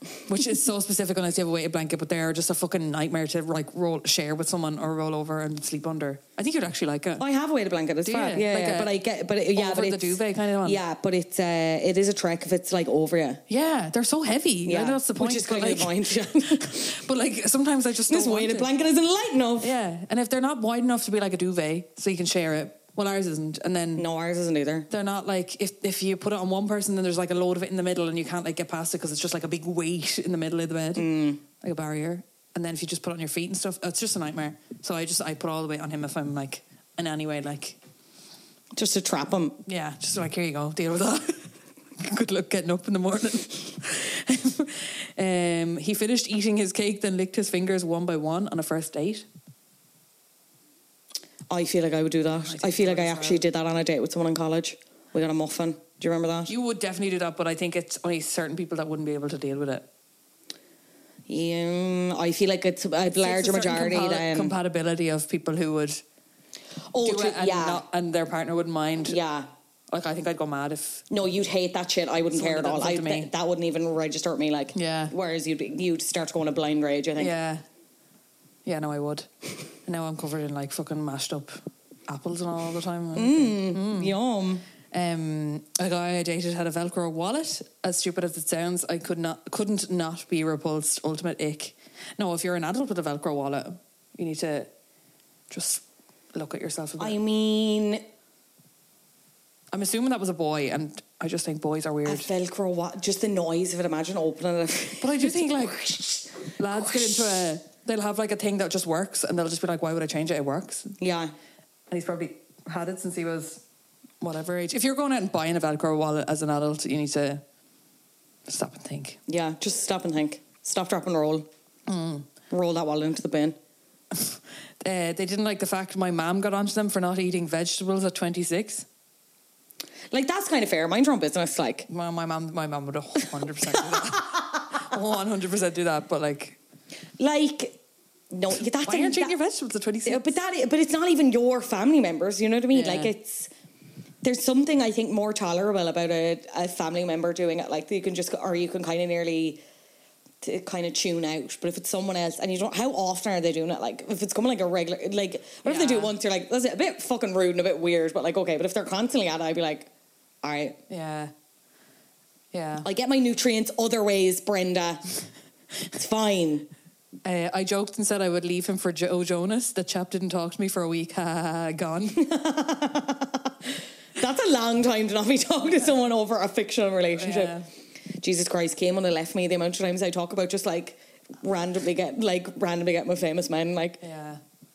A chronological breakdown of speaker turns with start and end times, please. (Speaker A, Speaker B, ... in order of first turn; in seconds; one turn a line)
Speaker A: 0.3-7.2
Speaker B: 7.2-13.4
Speaker A: 8.1-9.0
Speaker A: 9.5-10.8
Speaker A: 13.5-18.7
Speaker B: 14.7-17.0
Speaker B: 18.1-19.7
Speaker A: 19.6-24.1
Speaker B: 24.0-24.9
Speaker A: 24.9-37.8
Speaker B: 31.0-31.4
Speaker B: 38.8-39.6
Speaker A: 39.7-49.2
Speaker B: 51.5-56.5
Speaker A: 52.4-53.4
Speaker A: 56.5-59.9
Speaker B: 61.3-64.5
Speaker A: 63.1-66.0
Speaker B: 66.9-67.8
Speaker A: 67.0-69.2
Speaker B: 69.1-69.5
Speaker A: 69.9-71.0
Speaker B: 71.1-77.3
Speaker A: 72.3-73.3
Speaker A: 74.7-75.1
Speaker A: 77.2-77.6
Speaker A: 78.7-79.3
Speaker A: 79.9-84.2
Speaker B: 83.2-84.6
Speaker A: 84.9-94.7
Speaker A: 95.5-97.2
Speaker B: 97.0-98.0
Speaker A: 99.7-102.3
Speaker B: 102.1-107.3
Speaker A: 105.0-105.9
Speaker A: 106.6-111.0
Speaker B: 111.0-111.3
Speaker A: 111.9-113.6
Speaker A: 114.2-117.4
Speaker A: 118.5-119.2
Speaker B: 119.3-121.5
Speaker A: 121.9-122.3
Speaker B: 122.5-123.6
Speaker A: 124.1-128.9
Speaker B: 130.1-131.9
Speaker A: 131.9-136.6
Speaker B: 134.0-134.4
Speaker B: 137.2-137.8
Speaker B: 138.3-139.3
Speaker A: 138.8-140.4
Speaker B: 140.1-143.5
Speaker A: 142.7-143.1
Speaker B: 144.2-149.6
Speaker B: 150.4-159.9
Speaker A: 155.6-156.1
Speaker B: 160.4-160.8
Speaker A: 160.9-161.3
Speaker A: 162.5-162.9
Speaker B: 162.8-165.0
Speaker B: 165.9-166.7
Speaker A: 167.2-172.3
Speaker B: 172.2-173.5
Speaker B: 174.2-177.5
Speaker A: 177.2-177.7
Speaker B: 178.2-184.0
Speaker A: 184.0-184.4